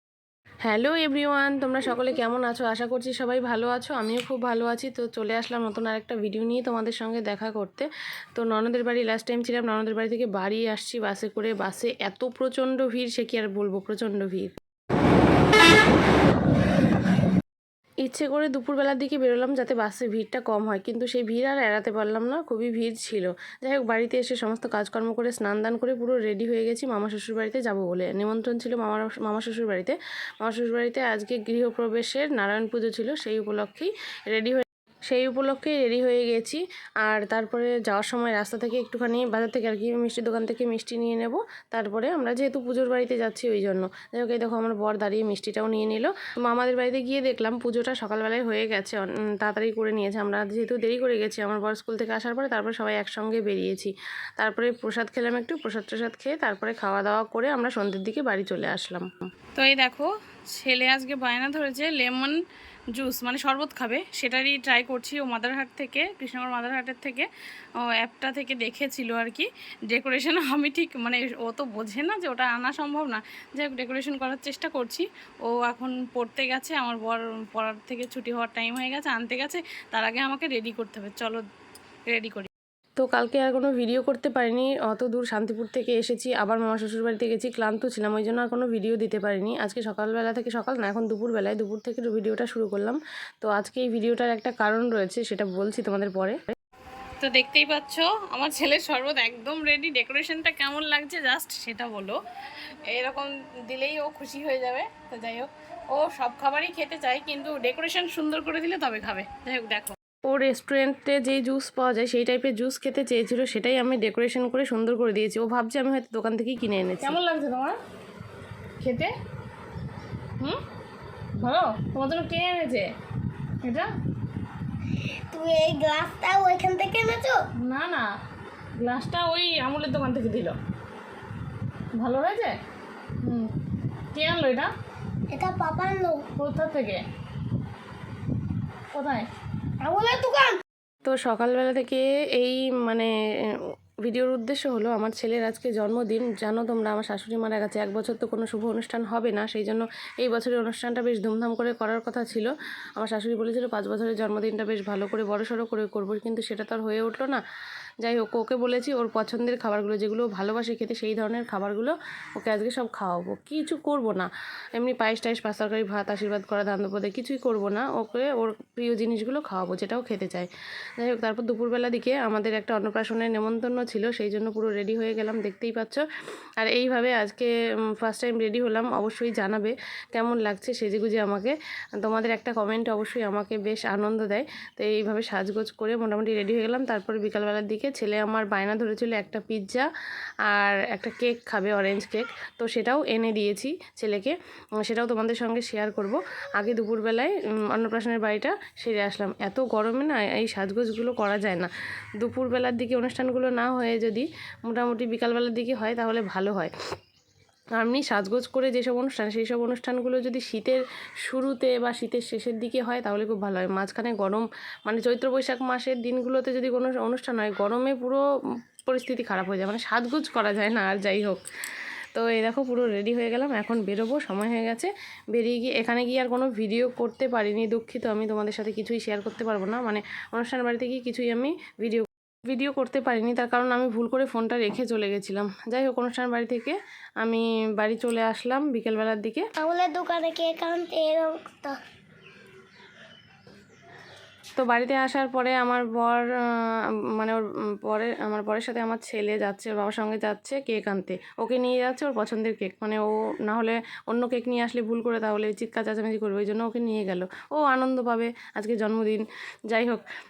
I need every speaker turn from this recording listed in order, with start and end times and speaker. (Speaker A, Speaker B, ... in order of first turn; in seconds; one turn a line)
Speaker A: 0.6-14.6
Speaker A: 18.0-59.1
Speaker B: 59.5-62.4
Speaker B: 62.9-67.3
Speaker B: 67.8-81.4
Speaker B: 82.1-82.5
Speaker A: 83.0-96.4
Speaker B: 97.2-102.2
Speaker B: 102.9-110.0
Speaker A: 110.3-117.2
Speaker B: 117.0-117.8
Speaker B: 118.8-119.1
Speaker B: 121.4-122.9
Speaker B: 123.6-123.9
Speaker C: 125.3-127.4
Speaker B: 127.6-128.1
Speaker B: 128.8-130.6
Speaker B: 132.0-132.6
Speaker B: 133.2-133.5
Speaker B: 134.1-134.7
Speaker C: 135.3-136.2
Speaker B: 136.4-137.0
Speaker B: 138.9-139.3
Speaker C: 139.8-140.6
Speaker A: 141.1-143.1
Speaker A: 144.0-157.4
Speaker A: 158.0-170.5
Speaker A: 171.0-176.1
Speaker A: 176.6-189.9
Speaker A: 190.5-206.7
Speaker A: 207.8-218.2
Speaker A: 218.9-221.4
Speaker A: 222.1-239.5
Speaker C: 239.6-241.8
Speaker A: 244.6-246.2
Speaker A: 247.2-260.0